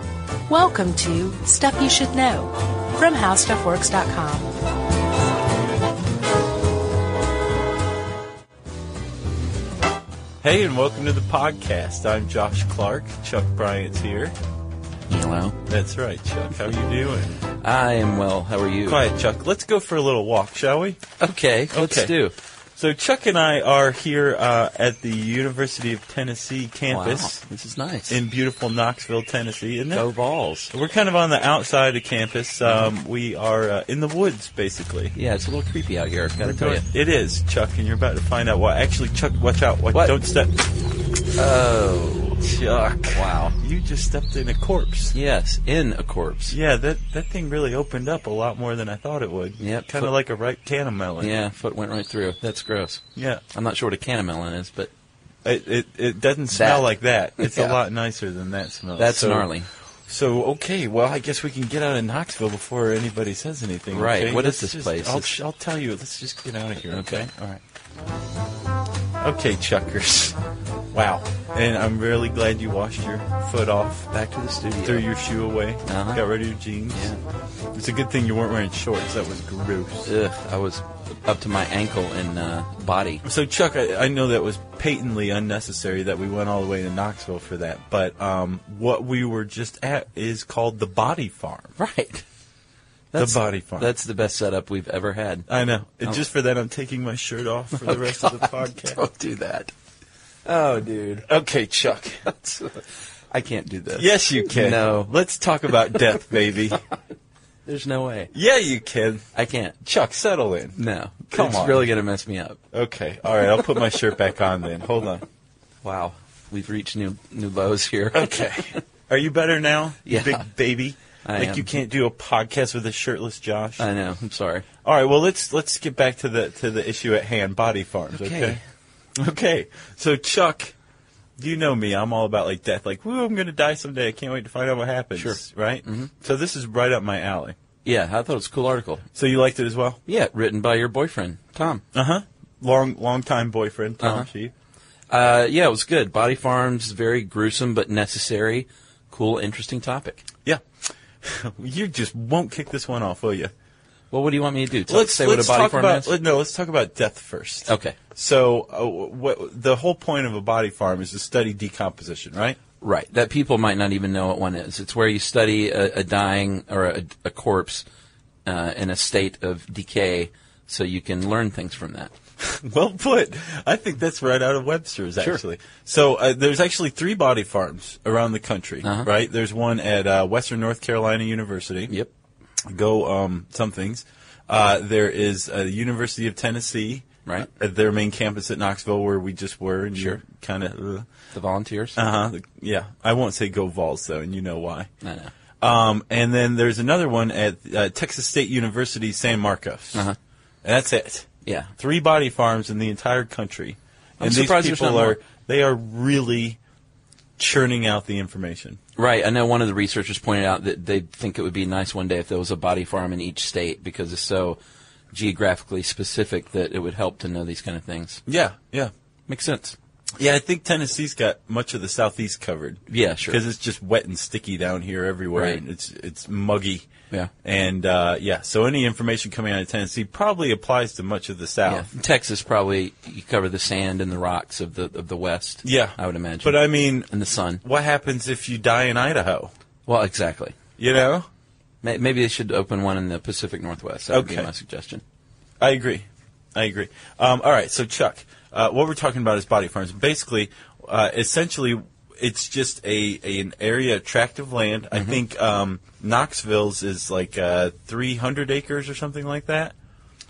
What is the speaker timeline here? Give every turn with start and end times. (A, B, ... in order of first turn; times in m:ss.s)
0:00.5-0:04.5 A
0:10.4-0:14.4 B
0:15.1-0:15.6 C
0:15.7-0:17.4 B
0:17.6-0:19.0 C
0:18.9-0:21.1 B
0:21.2-0:22.3 C
0:21.7-0:22.1 B
0:22.8-0:27.4 B
0:26.9-0:28.2 C
0:28.1-0:30.1 B
0:29.9-0:30.7 C
0:30.7-0:35.2 B
0:35.2-0:36.8 C
0:36.4-0:40.7 B
0:41.4-0:42.4 C
0:42.4-0:45.2 B
0:43.1-0:43.6 C
0:45.2-0:46.6 C
0:46.5-0:51.3 B
0:49.6-0:50.1 C
0:51.2-0:54.9 C
0:53.2-0:53.4 B
0:55.4-0:59.5 B
0:56.5-0:56.8 C
0:57.4-0:57.8 C
0:59.0-0:59.7 C
1:00.1-1:07.3 B
1:03.9-1:05.4 C
1:06.9-1:07.6 C
1:09.2-1:10.4 B
1:10.9-1:14.1 B
1:14.1-1:15.1 C
1:14.8-1:17.1 B
1:15.8-1:16.2 C
1:16.9-1:17.2 C
1:17.7-1:20.1 B
1:20.1-1:23.2 C
1:23.2-1:31.7 B
1:31.8-1:32.2 C
1:33.1-1:35.5 C
1:33.2-1:33.9 B
1:35.5-1:39.0 B
1:37.8-1:39.7 C
1:40.4-1:41.3 C
1:41.2-1:42.3 B
1:42.2-1:45.1 C
1:44.0-1:46.8 B
1:47.7-1:48.3 C
1:48.3-1:49.2 B
1:49.4-1:49.8 C
1:49.8-1:50.8 B
1:50.8-1:52.6 C
1:51.3-1:51.9 B
1:52.7-1:55.2 B
1:55.8-1:58.8 C
1:58.1-2:03.9 B
2:00.1-2:00.5 C
2:01.2-2:01.7 C
2:03.8-2:04.6 C
2:04.8-2:08.6 B
2:08.2-2:08.6 C
2:09.2-2:10.7 B
2:11.4-2:17.6 B
2:15.2-2:16.1 C
2:17.8-2:19.0 C
2:19.2-2:20.0 B
2:20.1-2:21.8 C
2:21.9-2:24.5 B
2:24.0-2:24.3 C
2:25.1-2:30.2 C
2:31.2-2:33.5 B
2:34.1-2:36.1 C
2:34.9-2:42.6 B
2:37.7-2:38.0 C
2:42.8-2:47.8 C
2:48.5-2:52.1 C
2:52.4-3:01.9 B
3:02.6-3:11.1 B
3:11.3-3:12.0 C
3:12.0-3:14.9 B
3:15.0-3:15.3 C
3:15.6-3:20.1 B
3:20.6-3:26.6 B
3:21.4-3:21.7 C
3:24.2-3:25.2 C
3:27.4-3:28.8 B
3:29.0-3:34.6 C
3:35.1-3:38.2 C
3:38.3-3:38.9 B
3:39.3-3:39.8 C
3:40.2-3:46.9 B
3:42.9-3:43.4 C
3:45.4-3:45.6 C
3:47.4-3:51.9 B
3:51.7-3:57.6 C
3:55.6-3:57.1 B
3:57.6-3:59.5 B
3:59.9-4:00.6 C
4:00.8-4:01.3 B
4:01.8-4:05.0 C
4:04.1-4:04.5 B
4:05.6-4:19.7 B